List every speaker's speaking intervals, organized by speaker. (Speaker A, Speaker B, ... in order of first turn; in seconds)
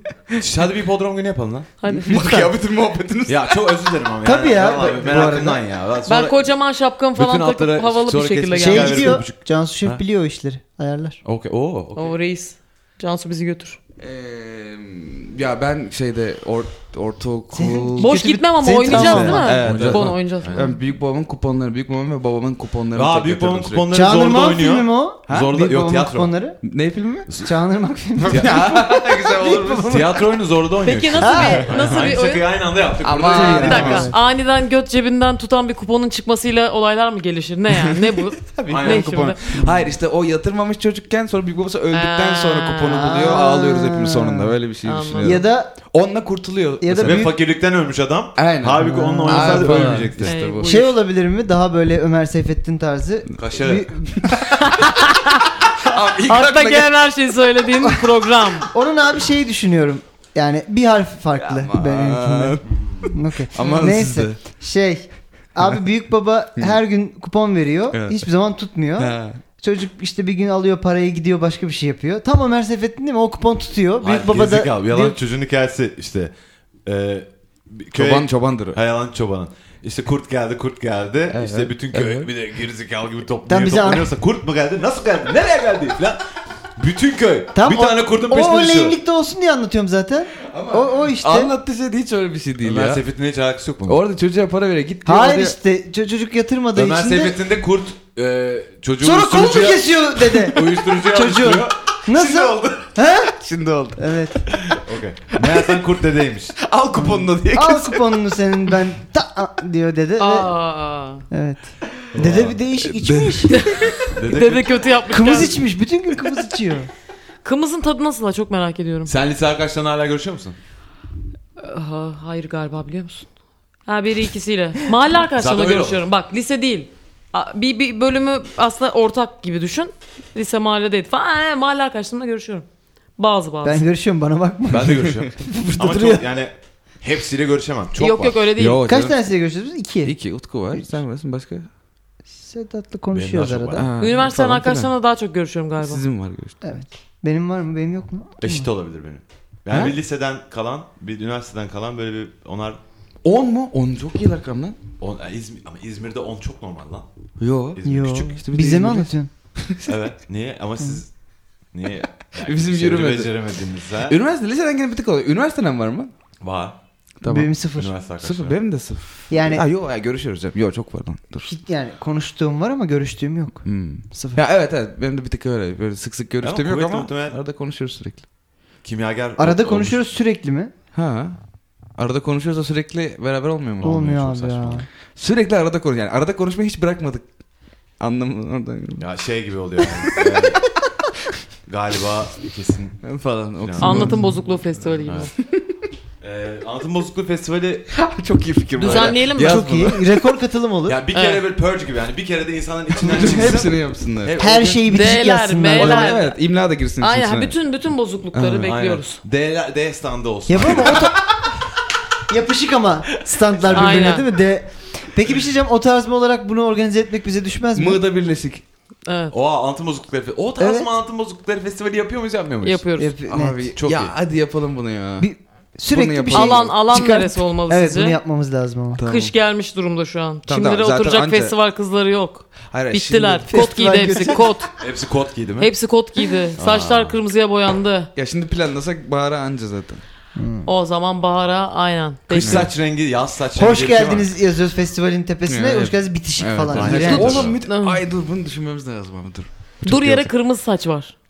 Speaker A: 0.4-1.7, 3.3-6.5, 7.1-10.0, 11.2-12.1, 19.1-20.6, 22.9-26.3, 28.3-28.9, 29.7-34.1, 38.7-39.1, 47.0-50.4, 53.4-53.9, 74.0-76.3, 76.8-86.2, 86.8-89.0, 92.6-94.0, 96.7-101.8, 104.5-106.6, 112.1-112.6, 114.1-115.0, 119.0-120.5, 125.4-126.0, 134.7-138.4, 143.1-143.9, 148.4-152.8, 155.0-157.1, 157.7-158.1, 159.8-161.1, 161.7-164.2, 166.4-166.8, 167.8-168.6, 176.4-177.4, 178.8-180.0, 184.0-184.8, 189.0-190.6, 191.7-193.0, 193.6-194.1, 196.2-197.9, 198.8-199.1, 200.9-203.7, 204.2-204.6, 208.6-211.1, 213.7-214.0, 219.3-222.8, 223.7-224.1, 234.8-235.7, 236.6-237.2, 242.3-244.3, 246.7-247.6
Speaker B: 1.8-2.3, 6.0-9.2, 11.9-13.8, 18.0-20.8, 30.8-32.5, 33.4-39.4, 41.9-43.2, 44.8-45.4, 50.2-51.0, 54.6-55.5, 56.2-58.7, 110.2-111.2, 113.5-115.6, 117.4-119.1, 121.6-123.3, 123.8-132.6, 133.2-133.8, 138.0-138.9, 144.0-146.0, 193.8-195.3, 198.8-199.8, 201.1-201.4, 204.8-206.4, 207.0-209.2, 213.7-214.3, 219.1-219.3, 222.6-223.1, 226.3-228.2, 229.0-234.7, 235.6-238.1, 240.6-242.7, 247.6-248.0, 249.8-251.1
Speaker C: 2.0-3.8, 14.0-18.2, 18.9-23.9, 25.3-25.5, 26.6-27.3, 28.2-30.1, 33.0-34.1, 38.4-47.3, 48.4-50.7, 55.8-56.9, 61.3-64.4, 67.9-68.2, 69.0-69.4, 77.9-78.8, 81.3-82.3, 90.5-93.0, 93.8-95.5, 102.2-102.8, 103.3-104.0, 105.4-105.7, 106.6-108.1, 112.8-113.9, 138.6-139.2, 140.0-141.7, 143.7-144.9, 145.8-146.6, 153.2-154.8, 157.4-160.0, 162.2-163.3, 164.0-166.1, 167.2-167.5, 168.2-171.5, 173.6-178.2, 180.9-181.3, 181.9-187.2, 188.0-189.1, 189.9-190.5, 193.0-194.4, 197.9-200.3, 203.0-205.0, 205.7-207.5, 208.3-208.7, 217.7-218.6, 223.3-225.3, 225.9-226.7, 228.9-229.3, 230.5-231.5, 232.7-234.5, 238.2-240.0, 242.3-242.7, 245.5-250.3
Speaker D: 2.1-2.5, 4.2-5.6, 8.6-11.2, 17.5-19.5, 23.9-26.6, 27.3-30.2, 31.2-31.7, 33.2-34.2, 43.0-44.6, 45.2-45.8, 46.8-47.4, 48.8-50.1, 50.6-54.4, 58.7-75.2, 83.5-84.1, 87.5-91.5, 95.0-97.4, 99.0-103.3, 104.0-104.4, 107.0-110.5, 111.3-113.9, 115.1-116.9, 133.6-136.2, 138.8-140.2, 140.7-141.0, 142.4-143.9, 146.6-148.7, 157.8-159.3, 167.2-167.9, 169.3-169.6, 171.4-174.4, 179.4-180.7, 183.8-184.8, 193.9-194.2, 199.0-201.0, 204.4-206.2, 210.5-211.4, 212.3-218.0, 220.6-220.9, 223.0-223.7, 225.2-229.0, 233.5-234.4, 240.3-240.7, 243.5-247.5